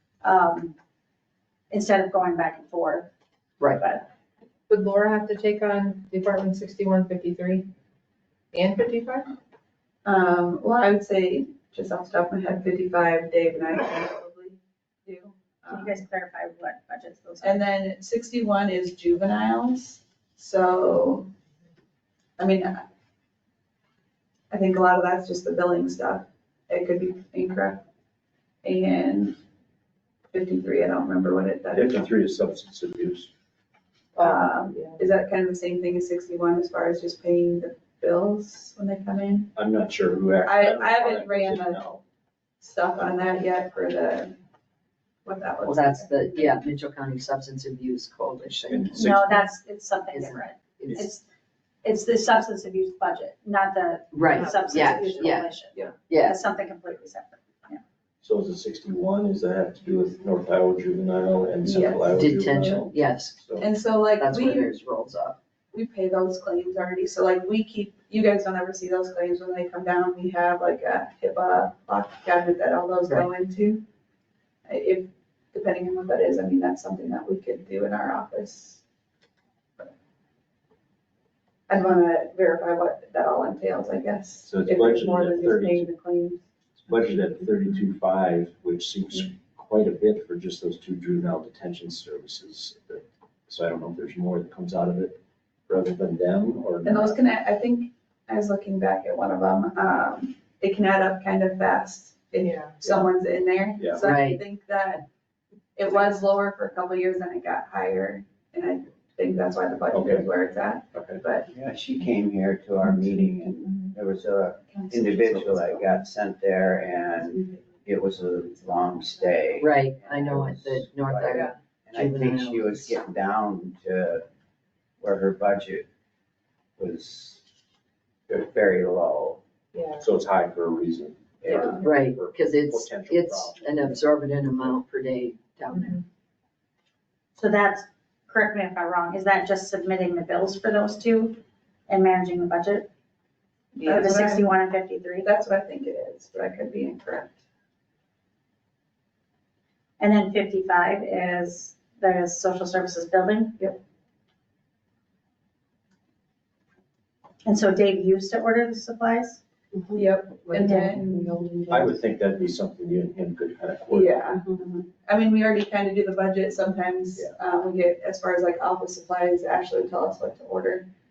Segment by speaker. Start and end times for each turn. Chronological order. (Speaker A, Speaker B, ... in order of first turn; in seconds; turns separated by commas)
Speaker A: 0.2-0.8, Speaker A: 1.7-3.1, Speaker A: 3.7-4.1, Speaker B: 4.7-7.7, Speaker B: 8.5-9.3, Speaker C: 10.1-16.0, Speaker A: 15.7-17.7, Speaker C: 17.4-21.3, Speaker C: 22.4-22.8, Speaker C: 24.5-27.8, Speaker C: 28.6-29.4, Speaker C: 30.3-32.1, Speaker D: 31.7-33.3, Speaker B: 34.1-35.1, Speaker C: 34.2-39.5, Speaker D: 39.6-42.0, Speaker C: 40.4-41.9, Speaker C: 42.6-44.4, Speaker C: 45.2-46.5, Speaker E: 45.6-49.0, Speaker D: 48.7-49.5, Speaker A: 48.9-51.2, Speaker E: 50.1-51.1, Speaker A: 51.8-57.8, Speaker E: 54.1-55.5, Speaker B: 54.4-55.3, Speaker E: 56.1-56.4, Speaker D: 58.2-63.7, Speaker C: 61.6-62.1, Speaker E: 62.1-63.4, Speaker C: 63.6-64.8, Speaker E: 64.2-65.4, Speaker C: 65.7-73.8, Speaker C: 74.7-78.8, Speaker C: 81.7-86.4, Speaker D: 84.4-85.9, Speaker D: 86.9-97.2, Speaker C: 96.8-105.1, Speaker B: 102.4-102.8, Speaker D: 102.8-103.1, Speaker D: 103.8-104.1, Speaker E: 104.0-104.4, Speaker C: 105.8-111.5, Speaker D: 109.9-110.3, Speaker D: 110.9-111.2, Speaker F: 111.5-124.2, Speaker C: 114.7-116.0, Speaker C: 117.3-117.6, Speaker E: 119.6-123.0, Speaker B: 121.3-121.5, Speaker F: 125.0-125.8, Speaker F: 126.8-127.4, Speaker F: 128.3-129.4, Speaker B: 129.7-130.1, Speaker D: 130.0-134.0, Speaker F: 131.4-131.8, Speaker B: 131.4-131.8, Speaker E: 131.8-136.0, Speaker B: 135.7-136.0, Speaker A: 137.4-142.9, Speaker C: 143.7-144.5, Speaker A: 143.9-145.3, Speaker C: 145.2-147.4, Speaker A: 150.0-153.6, Speaker A: 157.4-159.4, Speaker B: 159.7-161.9, Speaker C: 159.9-161.3, Speaker D: 161.7-164.4, Speaker C: 163.9-170.9